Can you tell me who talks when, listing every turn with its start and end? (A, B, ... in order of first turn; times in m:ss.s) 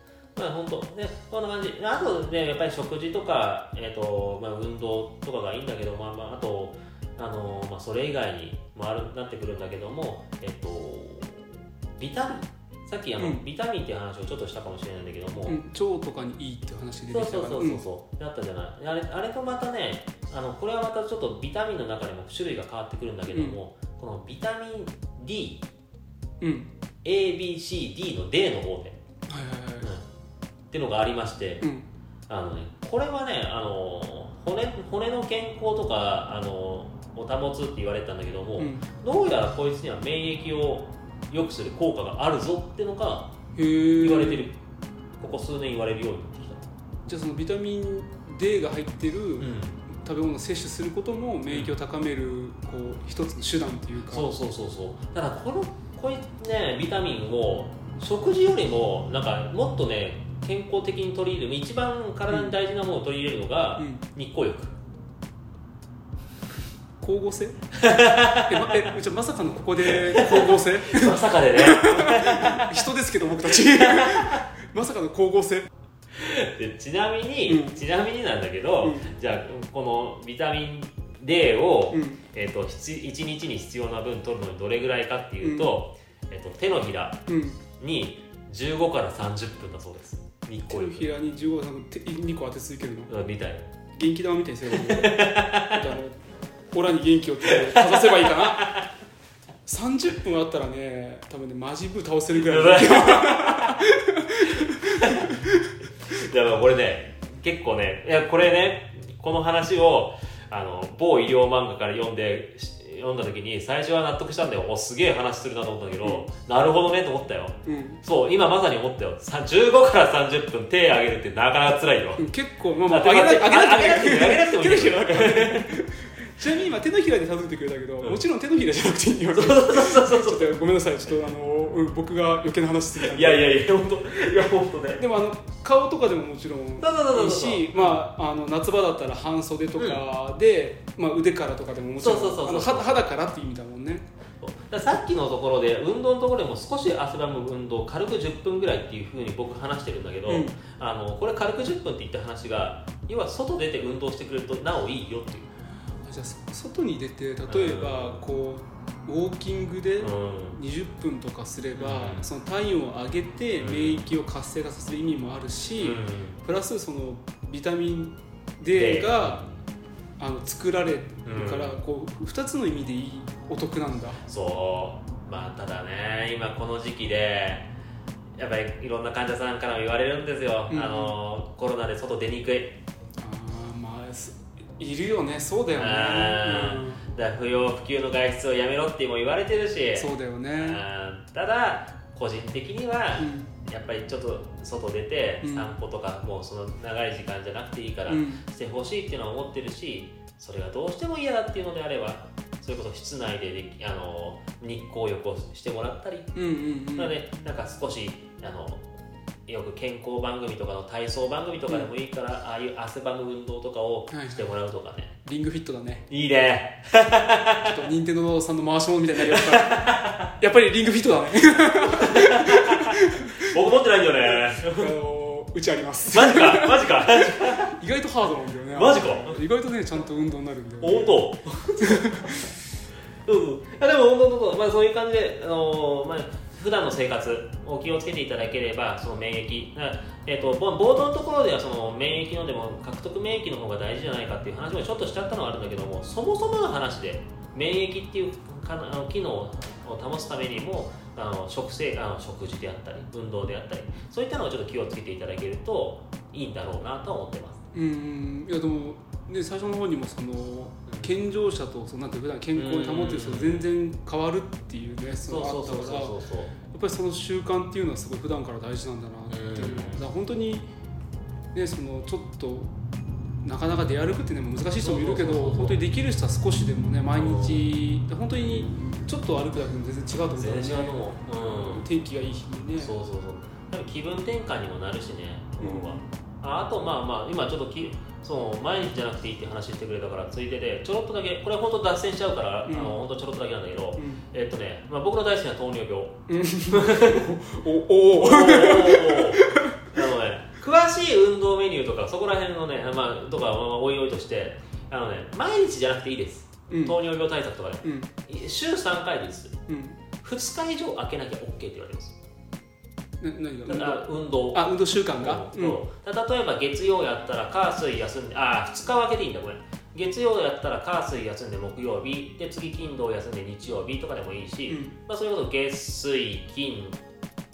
0:00.4-0:15.6 A
0:15.5-0:17.8 B
0:17.1-0:25.7 A
0:23.3-0:23.6 B
0:26.4-0:26.7 B
0:27.0-0:29.0 A
0:29.3-0:29.9 B
0:30.7-0:31.7 A
0:31.6-0:31.9 B
0:32.3-0:43.3 A
0:38.6-0:38.9 B
0:43.6-0:44.5 B
0:44.0-0:44.6 A
0:45.2-0:46.7 A
0:47.1-0:54.3 B
0:49.4-0:49.8 A
0:51.5-0:51.8 A
0:54.1-1:04.8 A
1:02.3-1:02.6 B
1:03.8-1:04.0 B
1:07.0-1:07.7 B
1:07.8-1:08.7 A
1:08.3-1:15.7 B
1:09.9-1:12.8 A
1:13.4-1:14.4 A
1:16.1-1:27.2 A
1:17.5-1:17.8 B
1:18.8-1:19.1 B
1:21.9-1:22.2 B
1:25.4-1:25.7 B
1:27.3-1:27.6 B
1:27.8-1:31.1 A
1:30.7-1:33.1 B
1:33.1-1:33.7 A
1:34.0-1:36.2 B
1:34.7-1:35.8 A
1:36.7-1:38.8 B
1:37.5-1:38.8 A
1:39.7-1:45.8 B
1:42.4-1:43.8 A
1:44.6-1:45.4 A
1:46.1-2:02.3 A
1:56.0-1:56.3 B
1:57.6-1:58.0 B
2:02.2-2:13.5 B
2:02.9-2:05.8 A
2:09.3-2:10.5 A
2:13.0-2:15.0 A
2:15.0-2:24.1 B
2:16.8-2:18.1 A
2:22.0-2:23.1 A
2:24.4-2:35.5 A
2:30.3-2:30.6 B
2:36.0-2:49.4 B
2:37.5-2:38.2 A
2:40.0-2:40.6 A
2:41.8-2:42.3 A
2:43.6-2:44.0 A
2:45.8-2:46.4 A
2:48.7-2:49.6 A
2:50.2-2:54.2 B
2:51.2-2:51.8 A
2:54.3-2:57.7 A
2:58.4-3:02.8 A
3:00.7-3:01.2 B
3:03.2-3:07.0 B
3:05.8-3:26.3 A
3:10.0-3:10.8 B
3:13.2-3:13.5 B
3:15.4-3:15.7 B
3:18.1-3:18.4 B
3:26.4-3:27.2 B
3:27.0-3:28.9 A
3:29.5-3:35.1 A
3:34.1-3:34.4 B
3:35.2-3:36.1 B
3:36.1-3:37.7 A
3:37.6-3:43.6 B
3:39.3-3:40.3 A
3:41.9-3:44.9 A
3:44.4-3:51.2 B
3:46.1-3:47.7 A
3:48.7-3:49.4 A
3:50.8-3:52.5 A
3:51.8-3:52.5 B
3:53.2-4:17.6 A
4:17.7-4:26.2 B
4:20.9-4:21.1 A
4:22.6-4:23.7 A
4:25.3-4:26.5 A
4:26.7-4:30.7 B
4:29.3-4:30.1 A
4:31.6-4:32.7 B
4:33.4-4:41.0 B
4:34.8-4:35.8 A
4:37.2-4:37.7 A
4:40.4-4:41.8 A
4:41.5-4:42.9 B
4:42.8-4:57.3 A
4:45.6-4:46.0 B
4:52.7-4:53.0 B
4:54.0-4:54.2 B
4:56.3-4:59.9 B
4:58.1-5:09.6 A
5:06.7-5:07.0 B
5:07.8-5:08.1 B
5:09.7-5:10.0 B
5:10.2-5:12.2 A
5:13.2-5:15.8 B
5:13.7-5:27.0 A
5:24.7-5:25.0 B